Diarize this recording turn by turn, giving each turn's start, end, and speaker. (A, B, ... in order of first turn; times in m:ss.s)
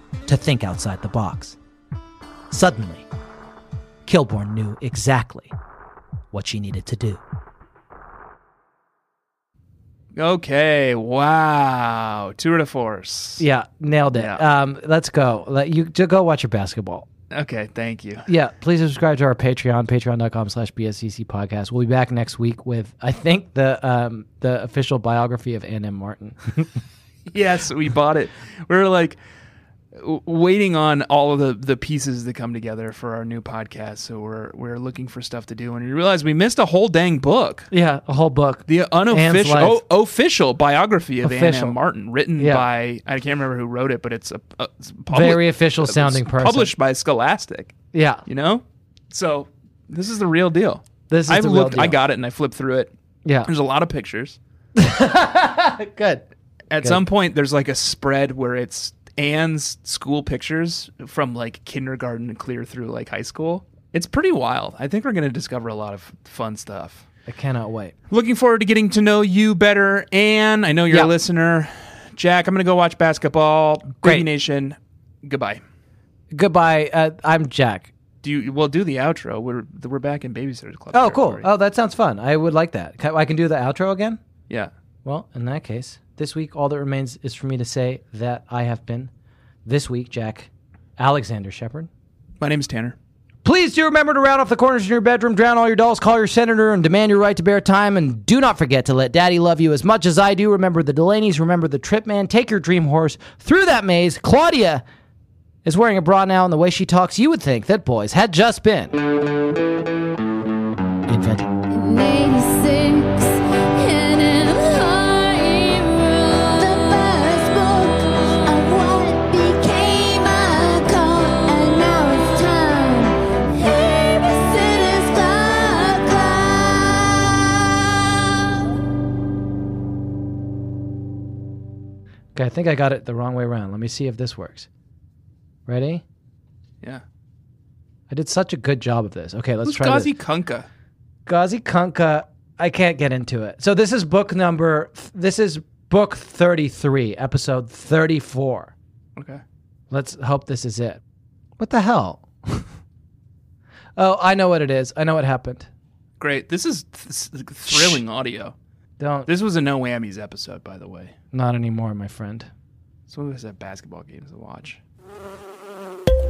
0:00.3-0:01.6 A
0:02.5-0:03.1 A
0:04.0-0:05.5 A
0:06.3-0:07.2 A
0:10.1-0:13.4 B
0:13.4-0:17.0 A
0:14.1-0:14.4 B
0:17.3-0:18.3 B
0:18.3-0:26.7 A
0:27.3-0:29.2 B
0:29.9-0:37.7 B
0:37.7-0:39.8 A
0:38.7-0:47.7 B
0:41.2-0:41.8 A
0:42.4-0:42.7 A
0:45.1-0:46.7 A
0:47.9-0:48.2 A
0:48.3-0:52.9 B
0:51.1-0:52.0 A
0:53.2-0:53.5 A
0:53.4-0:54.4 B
0:54.8-0:56.2 A
0:56.7-1:07.0 B
1:07.3-1:07.9 A
1:08.1-1:15.6 B
1:14.0-1:14.3 A
1:16.3-1:17.9 A
1:18.2-1:21.5 B
1:20.9-1:24.2 A
1:25.0-1:29.1 A
1:29.6-1:31.9 A
1:32.4-1:33.0 B
1:33.4-1:44.8 A
1:45.6-1:49.0 A
1:51.1-1:51.5 A
1:51.7-2:08.7 C
2:12.3-2:14.7 A
2:15.7-2:16.0 A
2:18.1-2:20.1 A
2:19.6-2:20.7 B
2:21.3-2:28.7 A
2:29.2-2:29.4 B
2:29.9-2:31.0 A
2:31.6-2:32.6 A
2:34.0-2:35.7 A
2:36.2-2:38.6 B
2:37.7-2:38.0 A
2:39.0-2:39.3 A
2:39.3-2:41.1 B
2:41.3-2:42.5 A
2:43.1-2:44.8 B